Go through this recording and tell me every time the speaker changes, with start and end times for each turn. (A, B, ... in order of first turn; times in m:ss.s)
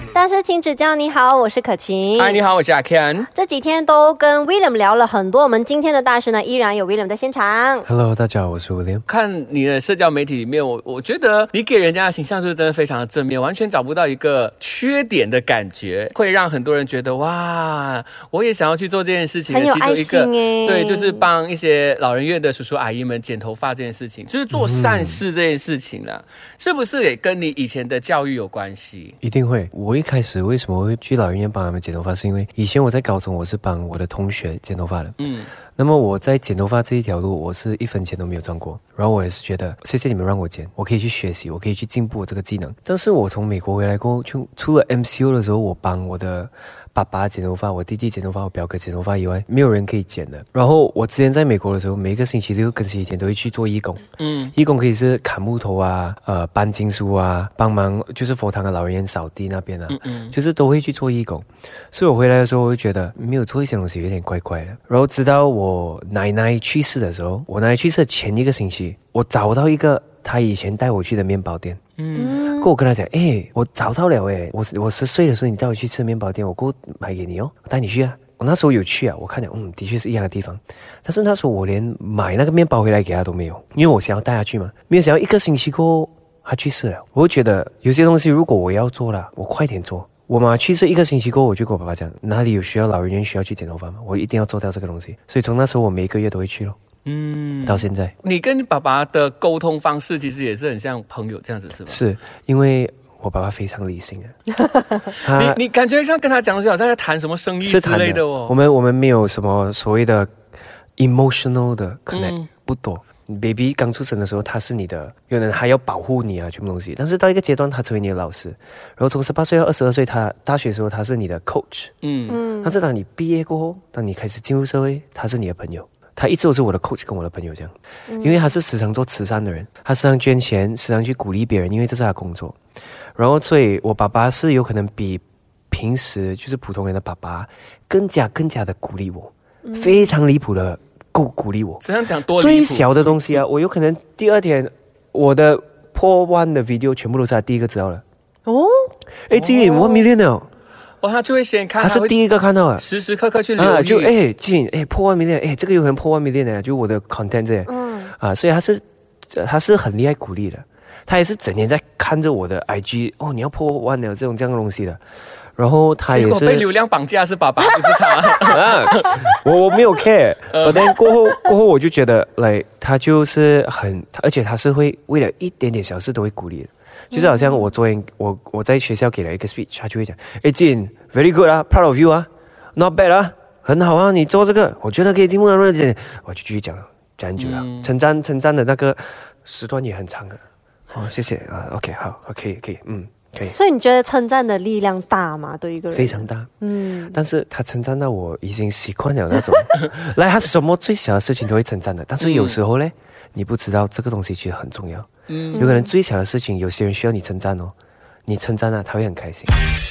0:00.1-0:02.4 A
0:02.2-0:03.3 B
0:03.3-0:07.9 A
0:07.9-0:09.0 C
0:09.1-0:29.2 B
0:19.5-0:21.3 A
0:24.5-0:25.2 C
0:29.2-0:35.2 C
0:35.2-0:35.5 B
0:35.8-1:11.8 C
0:54.2-0:54.6 B
0:59.9-1:00.3 B
1:12.0-1:12.4 B
1:12.2-1:12.7 A
1:12.3-1:36.8 C
1:37.1-1:42.0 B
1:37.6-1:38.2 C
1:41.9-1:44.4 C
1:45.2-1:48.6 B
1:45.2-1:45.6 C
1:47.6-1:50.3 C
1:51.0-2:12.6 C
1:52.1-1:52.5 B
2:02.0-2:02.4 B
2:02.3-2:02.8 A
2:08.1-2:08.5 A
2:13.2-2:21.8 C
2:19.6-2:20.2 A
2:21.8-2:23.2 B
2:22.4-2:28.0 C
2:28.5-2:28.9 A
2:29.3-2:30.5 C
2:29.8-2:30.1 A
2:31.0-2:32.2 B
2:31.8-2:32.8 C
2:32.8-2:34.1 B
2:33.6-2:45.0 C
2:37.7-2:38.1 A
2:45.6-2:46.7 C
2:46.1-2:49.4 B
2:48.5-3:13.6 C
2:50.5-2:51.1 B
2:57.1-2:57.7 A
3:07.4-3:07.9 B
3:13.4-3:17.2 A
3:15.9-3:16.5 C
3:17.1-3:27.8 C
3:22.2-3:22.6 B
3:25.3-3:25.7 B
3:25.5-3:25.9 A
3:28.3-3:29.5 C